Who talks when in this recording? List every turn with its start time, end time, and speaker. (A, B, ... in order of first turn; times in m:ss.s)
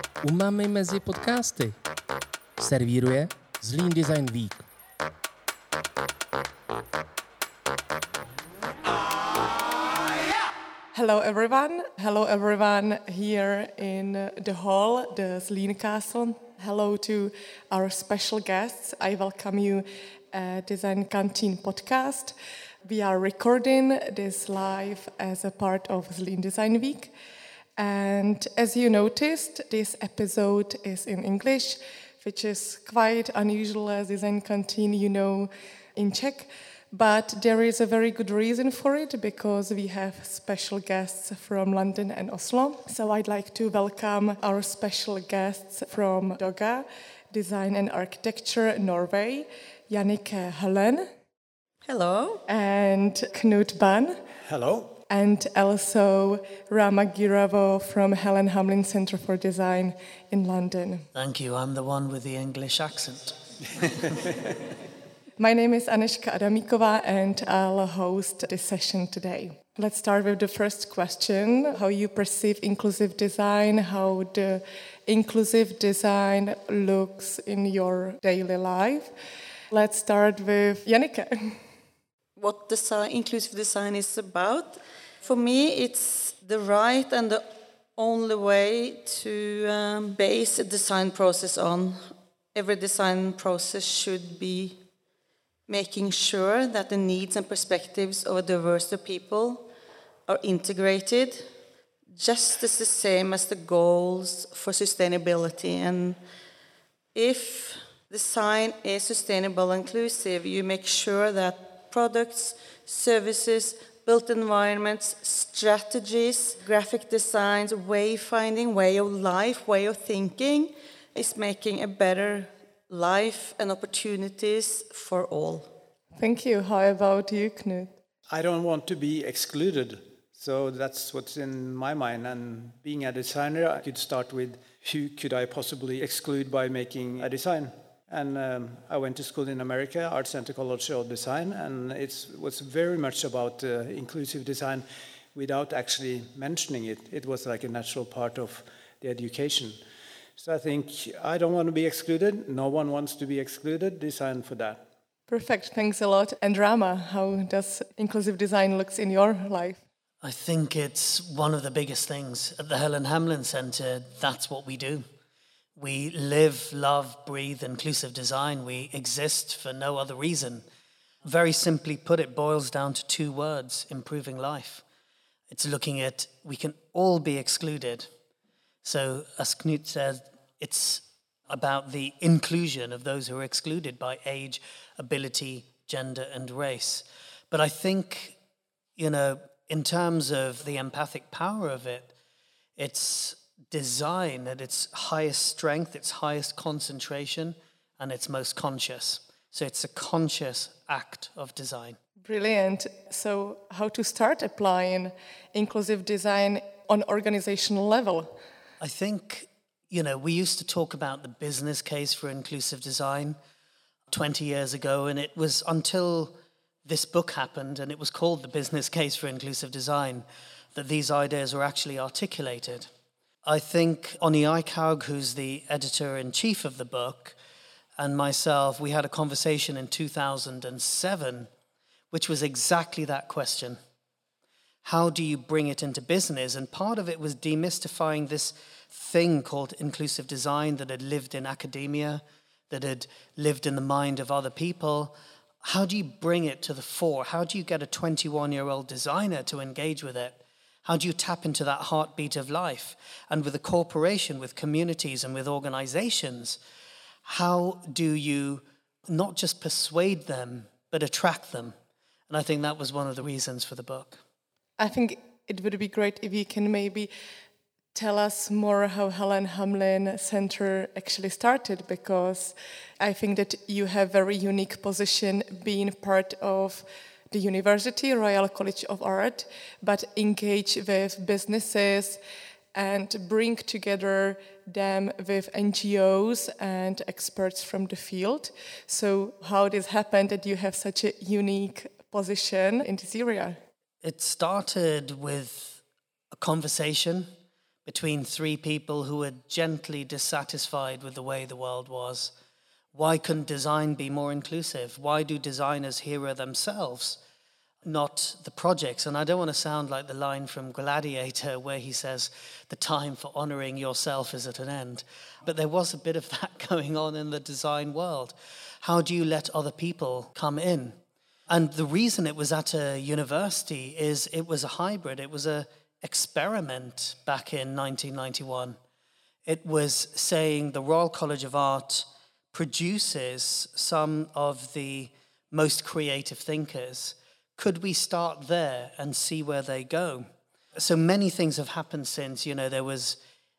0:00.2-0:01.8 A
0:02.6-0:04.6 A
0:10.9-0:27.1 B
0:27.8-0:51.1 B
0:51.9-0:52.4 C
0:52.5-0:54.2 B
0:54.5-0:55.0 D
0:55.1-1:01.1 B
1:01.2-1:03.4 E
1:05.4-1:19.1 B
1:19.7-1:21.6 B
1:22.4-1:27.4 C
1:28.0-1:32.0 C
1:32.5-1:34.8 C
1:35.7-1:39.7 C
1:40.3-1:41.5 C
1:42.1-1:46.2 C
1:47.2-2:05.7 C
2:06.2-2:08.0 B
2:08.3-2:29.8 D
2:30.4-2:34.9 D
2:35.3-2:39.8 B
2:40.2-2:45.0 E
2:45.8-2:50.6 E
2:51.2-2:54.8 E
2:55.5-2:58.1 E
2:58.8-3:08.4 E
3:09.0-3:12.1 E
3:12.8-3:22.0 E
3:22.2-3:28.4 B
3:28.8-3:33.4 E
3:34.1-3:42.9 E
3:43.4-3:47.4 E
3:48.0-3:51.5 E
3:52.1-3:53.8 E
3:54.8-4:16.6 E
4:17.2-4:21.8 E
4:22.3-4:24.2 E
4:24.8-4:27.1 B
4:27.9-4:42.2 B
4:42.8-4:53.6 B
4:54.0-4:57.3 E
4:57.9-5:02.3 E
5:02.9-5:07.2 E
5:07.8-5:28.8 E
5:29.5-5:40.3 E
5:40.8-5:43.2 E